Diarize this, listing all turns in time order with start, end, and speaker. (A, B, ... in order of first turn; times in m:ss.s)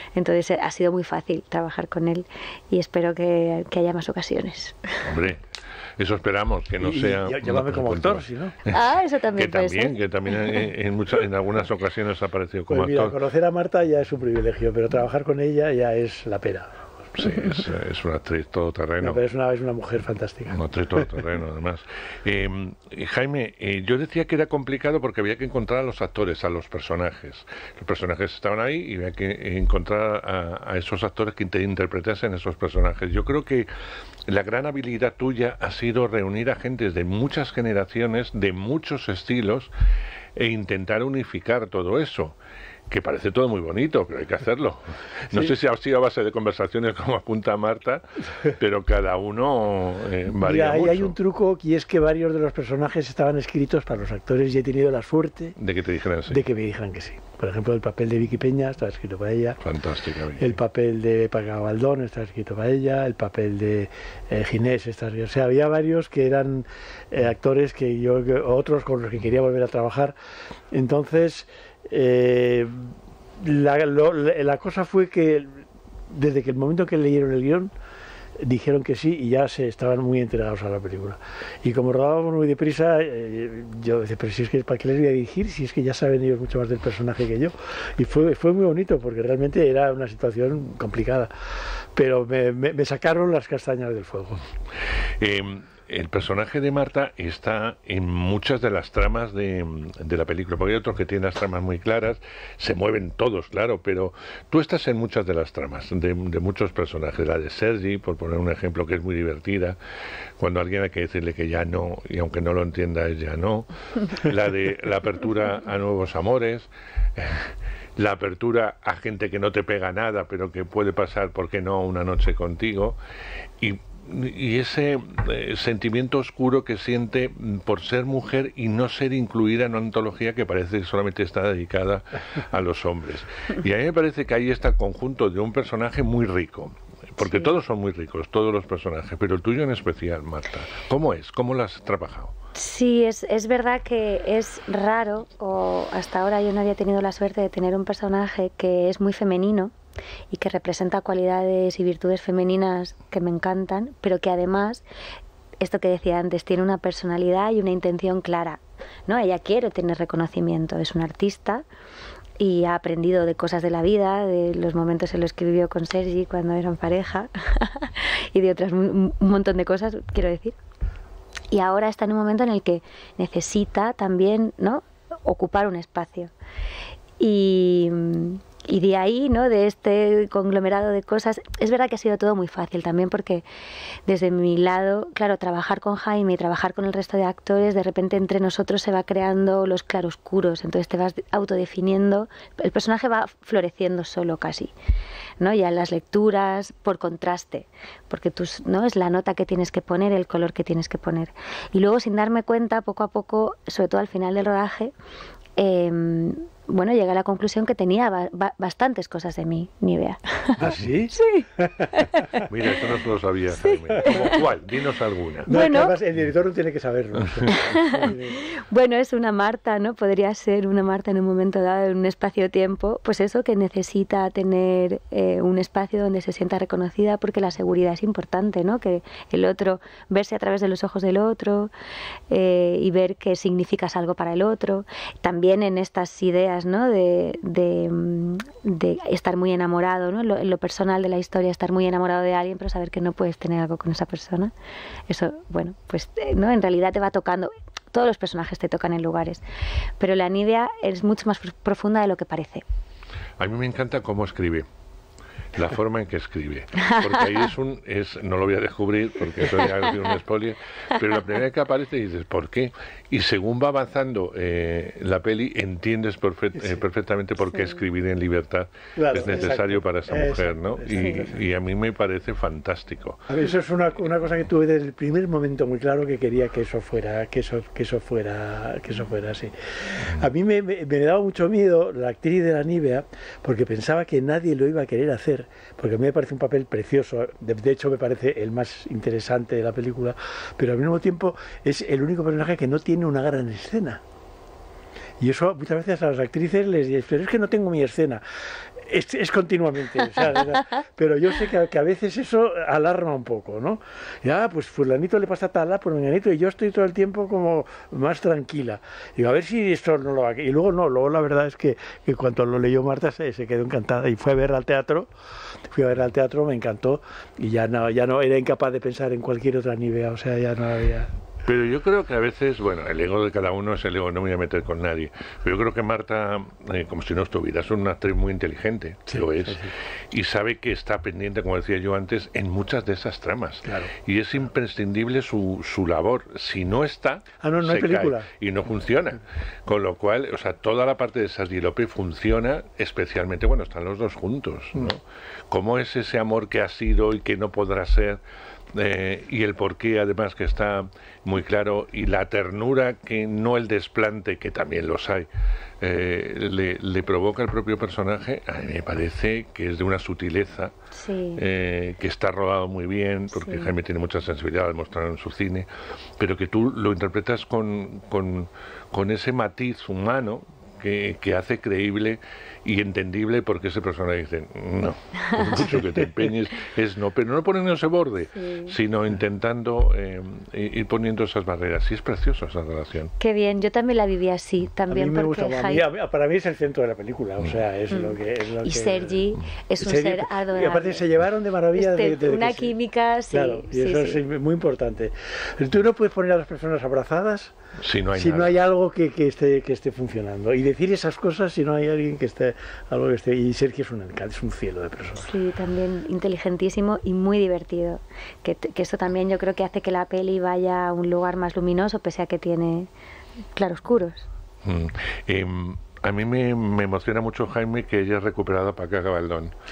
0:00.2-0:05.0 A
0:05.0-0:05.4 B
0:06.0-0:08.8 B
0:06.8-0:08.6 C
0:08.7-0:10.6 A
0:09.4-0:13.2 B
0:12.7-0:16.8 C
0:17.2-0:19.2 B
0:19.0-0:20.6 C
0:20.5-0:33.7 B
0:34.3-0:39.7 B
0:40.4-0:42.4 B
0:42.9-0:51.2 B
0:50.3-0:55.6 C
0:55.6-0:56.4 B
0:56.3-0:59.6 C
0:59.6-1:00.6 B
1:00.4-1:10.2 C
1:10.7-1:17.7 C
1:18.4-1:31.3 C
1:32.0-1:34.4 C
1:35.2-1:49.8 B
1:50.4-2:03.0 B
2:03.6-2:22.3 B
2:17.2-2:17.5 A
2:22.6-2:29.7 A
2:30.3-2:34.8 A
2:35.6-2:41.6 A
2:42.4-2:50.6 A
2:51.5-2:56.3 A
2:57.2-3:03.4 A
3:04.1-3:14.7 A
3:15.4-3:24.9 A
3:25.6-3:32.2 A
3:30.6-3:31.9 C
3:32.5-3:35.5 B
3:33.6-3:34.3 A
3:35.5-3:36.0 A
3:35.5-3:38.4 C
3:37.5-3:51.7 A
3:52.3-4:04.5 A
4:05.1-4:09.4 A
4:10.0-4:12.6 A
4:13.4-4:14.7 B
4:15.5-4:33.3 B
4:16.9-4:17.4 A
4:27.5-4:27.8 A
4:29.0-4:31.4 C
4:33.3-4:54.0 C
4:55.2-4:58.2 C
4:58.8-5:15.1 C
5:15.7-5:21.1 C
5:21.4-5:48.2 B
5:29.1-5:29.7 C
5:33.6-5:33.9 C
5:37.4-5:38.3 C
5:48.7-5:55.3 B
5:55.8-6:00.7 B
6:00.9-6:01.4 A
6:01.4-6:05.7 B
6:03.4-6:03.7 A
6:06.2-6:23.1 B
6:18.3-6:18.7 A
6:23.2-6:25.9 A
6:24.9-6:32.7 C
6:27.9-6:31.1 A
6:31.8-6:34.2 A
6:33.3-6:37.5 C
6:37.8-6:38.6 B
6:38.1-6:45.3 C
6:45.2-6:52.9 A
6:53.6-6:54.3 A
6:54.6-6:59.5 B